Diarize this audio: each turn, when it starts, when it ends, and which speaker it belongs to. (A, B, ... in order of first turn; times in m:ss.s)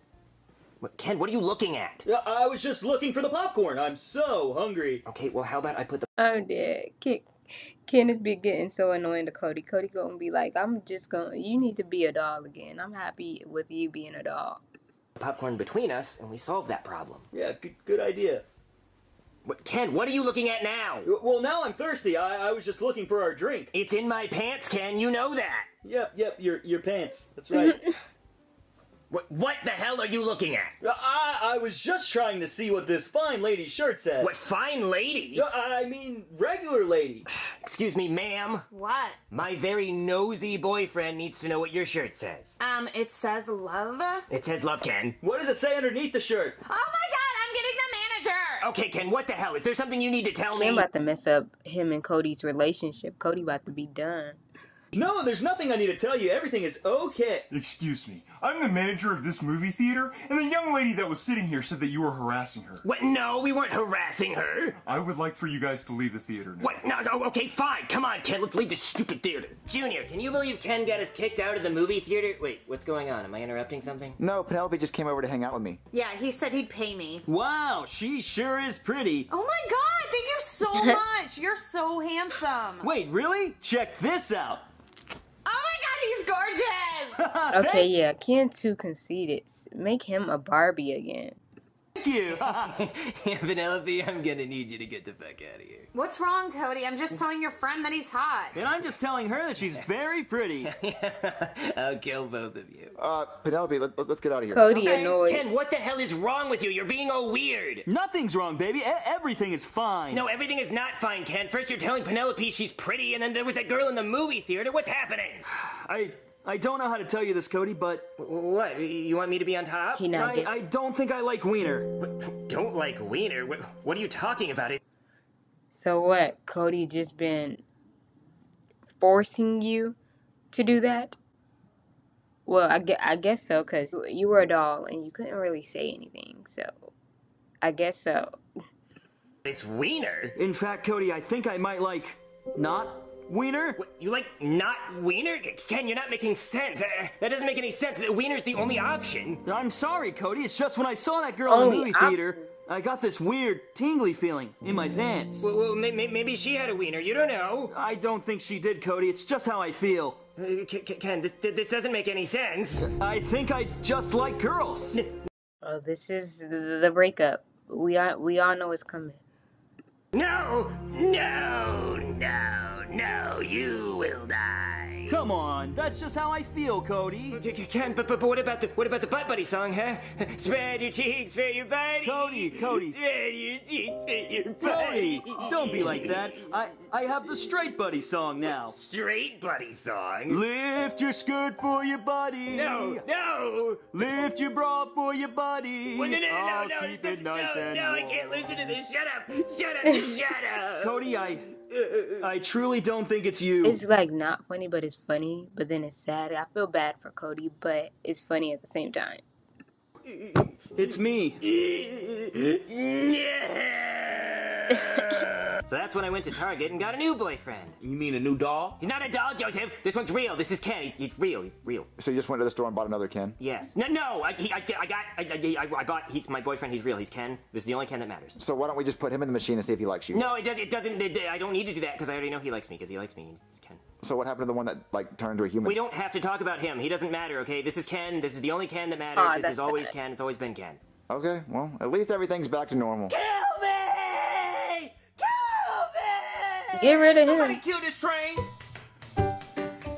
0:00.8-0:02.0 A
0:02.0-0:05.0 B
0:05.0-0:06.1 A
0:06.2-0:14.6 C
0:15.2-0:17.2 A
0:17.3-0:18.4 B
0:19.4-0:21.1 A
0:21.0-0:23.7 B
0:23.7-0:25.7 A
0:25.8-0:27.8 B
0:29.1-0:30.7 A
0:30.8-0:34.3 B
0:34.2-0:35.4 A
0:35.3-0:37.2 B
0:37.5-0:38.7 A
0:38.7-0:39.2 D
0:39.3-0:42.6 A
0:42.6-0:44.2 D
0:44.3-0:45.2 A
0:45.2-0:46.6 B
0:46.7-0:48.6 D
0:48.6-0:50.8 A
0:50.5-0:54.4 C
0:54.9-0:57.5 B
0:57.5-1:02.8 E
1:02.8-1:04.8 A
1:04.8-1:06.7 E
1:06.6-1:14.2 A
1:14.2-1:15.8 F
1:15.9-1:17.2 D
1:17.2-1:19.3 B
1:19.3-1:22.8 D
1:22.8-1:24.6 B
1:25.5-1:27.1 D
1:27.2-1:27.9 B
1:27.5-1:31.4 C
1:32.0-1:32.8 B
1:32.4-1:35.9 A
1:35.9-1:38.5 D
1:38.5-1:40.7 B
1:40.6-1:42.9 A
1:43.0-1:44.7 F
1:44.5-1:45.4 C
1:44.7-1:45.1 D
1:45.2-1:47.8 A
1:47.8-1:50.2 B
1:50.1-1:55.4 A
1:55.5-1:58.1 B
1:58.2-2:00.1 A
1:59.9-2:00.5 C
2:00.1-2:01.9 B
2:02.0-2:04.8 A
2:05.7-2:07.6 C
2:09.0-2:10.0 C
2:10.5-2:11.2 C
2:12.4-2:16.9 C
2:17.6-2:18.3 C
2:19.4-2:20.4 A
2:20.4-2:23.8 B
2:23.8-2:29.4 A
2:29.4-2:35.4 B
2:31.5-2:32.5 C
2:35.4-2:37.7 A
2:37.7-2:40.2 B
2:40.4-2:42.9 A
2:42.8-2:45.0 B
2:45.6-2:49.2 C
2:50.1-2:55.2 A
2:55.1-2:57.4 B
2:57.3-3:06.3 A
3:02.0-3:03.0 B
3:04.6-3:08.7 B
3:08.5-3:10.4 A
3:10.3-3:13.0 B
3:12.5-3:13.9 A
3:13.9-3:18.1 B
3:15.9-3:21.0 A
3:20.8-3:21.5 B
3:21.7-3:22.3 A
3:22.2-3:23.8 B
3:23.6-3:29.2 C
3:30.1-3:30.5 A
3:30.7-3:31.4 B
3:31.4-3:37.8 A
3:37.8-3:38.8 G
3:38.8-3:41.9 A
3:42.0-3:43.4 F
3:43.4-3:48.4 A
3:48.4-3:50.2 F
3:50.1-3:53.8 A
3:54.0-3:55.8 F
3:55.6-4:00.8 A
3:59.2-3:59.9 C
4:01.1-4:03.1 F
4:03.1-4:08.5 G
4:06.7-4:07.6 C